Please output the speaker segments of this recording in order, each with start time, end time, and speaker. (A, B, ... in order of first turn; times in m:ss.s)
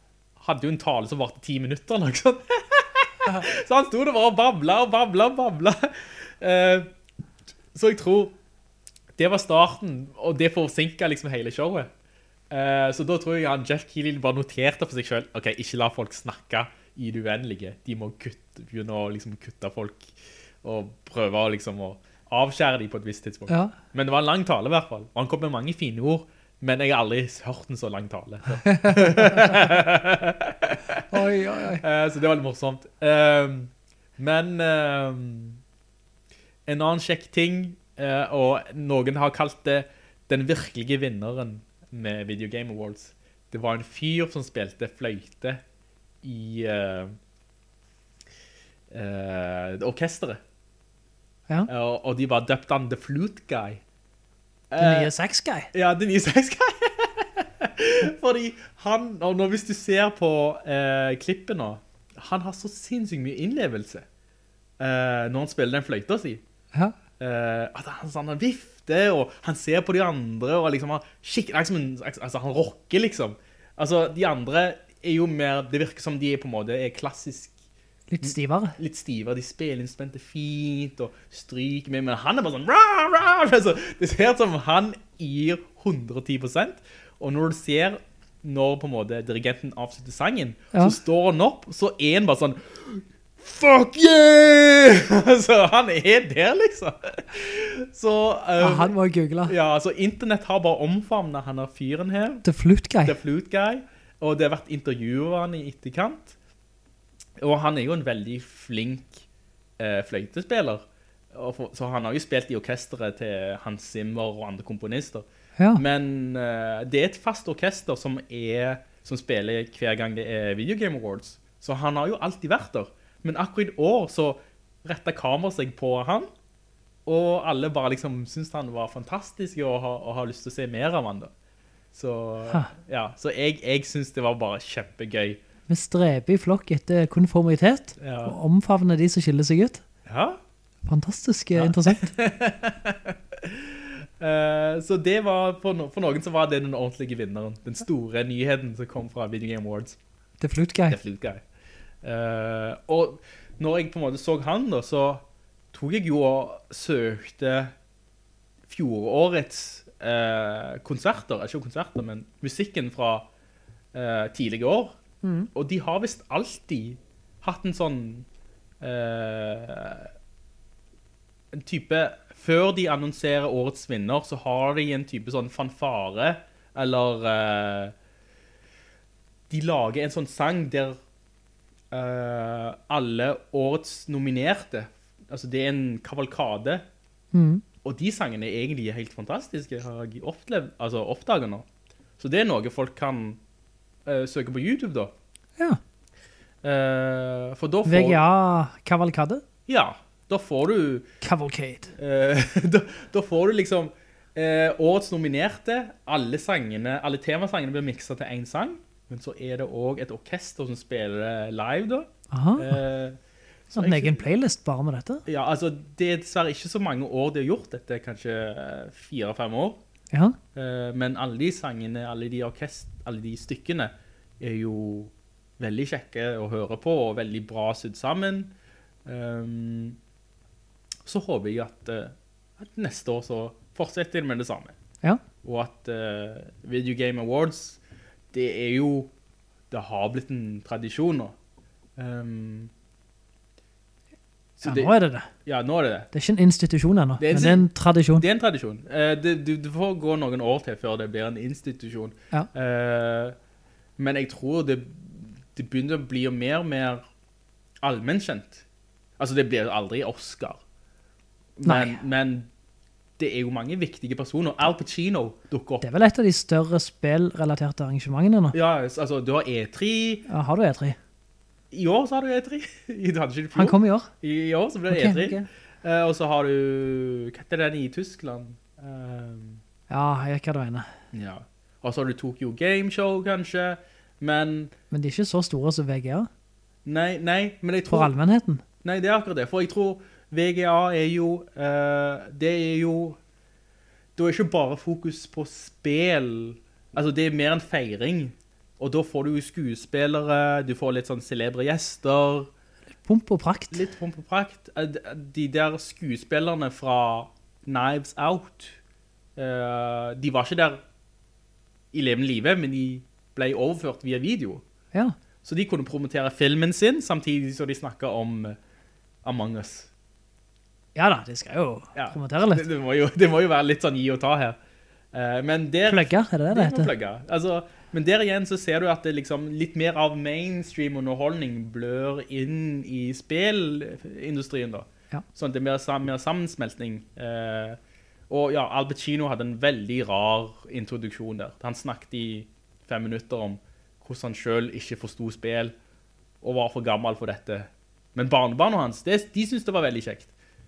0:00.4-0:06.9 A
0:07.7-0:08.4 A
0:09.2-0:11.9 A
0:12.5-0:35.6 A
0:23.5-0:23.7 B
0:28.6-0:29.5 B
0:31.1-0:31.8 B
0:36.7-0:45.6 A
0:46.2-0:47.1 A
0:48.9-0:50.4 A
0:51.7-0:53.8 A
0:54.7-0:55.1 A
0:54.8-0:55.7 B
0:55.7-1:04.0 A
1:04.8-1:06.4 A
1:07.2-1:17.5 A
1:18.1-1:18.8 B
1:18.2-1:38.9 A
1:38.6-1:39.5 B
1:39.4-1:42.4 A
1:42.4-1:43.2 B
1:43.0-1:46.3 A
1:47.4-1:49.2 A
1:49.8-2:06.3 A
1:55.6-1:55.8 B
2:07.0-2:11.3 A
2:11.9-2:15.4 A
2:15.7-2:19.8 B
2:18.0-2:18.3 A
2:20.0-2:20.4 A
2:20.8-2:22.1 B
2:21.6-2:30.0 A
2:30.4-2:31.0 B
2:30.9-2:31.4 A
2:32.0-2:37.7 A
2:38.7-2:43.3 A
2:43.9-2:45.0 A
2:45.2-2:45.5 B
2:45.5-2:48.2 A
2:48.8-2:50.1 A
2:51.5-2:57.9 A
2:59.5-3:01.0 A
3:01.9-3:06.8 A
3:07.3-3:07.6 B
3:07.8-3:11.6 A
3:12.2-3:13.4 A
3:14.0-3:15.1 A
3:16.6-3:18.2 A
3:17.8-3:19.4 B
3:19.7-3:21.1 A
3:21.2-3:21.9 B
3:22.0-3:34.2 A
3:32.3-3:32.8 B
3:33.7-3:35.2 B
3:35.3-3:39.8 A
3:40.1-3:40.4 B
3:40.5-3:48.5 A
3:49.0-3:50.0 A
3:51.0-3:54.7 A
3:55.4-3:57.8 A
3:58.3-3:59.1 A
3:59.7-4:01.4 A
4:02.0-4:02.7 A
4:04.6-4:04.9 A
4:04.6-4:05.3 B
4:05.4-4:06.1 A
4:06.1-4:08.2 B
4:07.2-4:13.3 A
4:14.0-4:17.0 A
4:17.8-4:18.6 A
4:19.2-4:20.6 A
4:21.6-4:22.5 A
4:21.6-4:22.0 B
4:23.2-4:25.8 A
4:25.8-4:28.6 B
4:28.5-4:30.3 A
4:30.3-4:31.0 B
4:31.7-4:39.6 A
4:33.5-4:34.1 B
4:34.9-4:35.5 B
4:39.9-4:40.9 B
4:41.1-4:44.7 A
4:44.9-4:46.3 B
4:46.8-4:48.1 A
4:47.9-4:48.6 B
4:48.8-4:53.2 A
4:54.2-5:02.5 A
5:03.0-5:03.8 B
5:03.7-5:08.8 A
5:09.4-5:10.8 A
5:11.9-5:14.6 A
5:15.4-5:18.6 A
5:19.2-5:19.9 A
5:20.9-5:22.7 B
5:21.9-5:24.6 A
5:25.1-5:45.7 A
5:25.9-5:26.9 B
5:46.4-5:50.3 A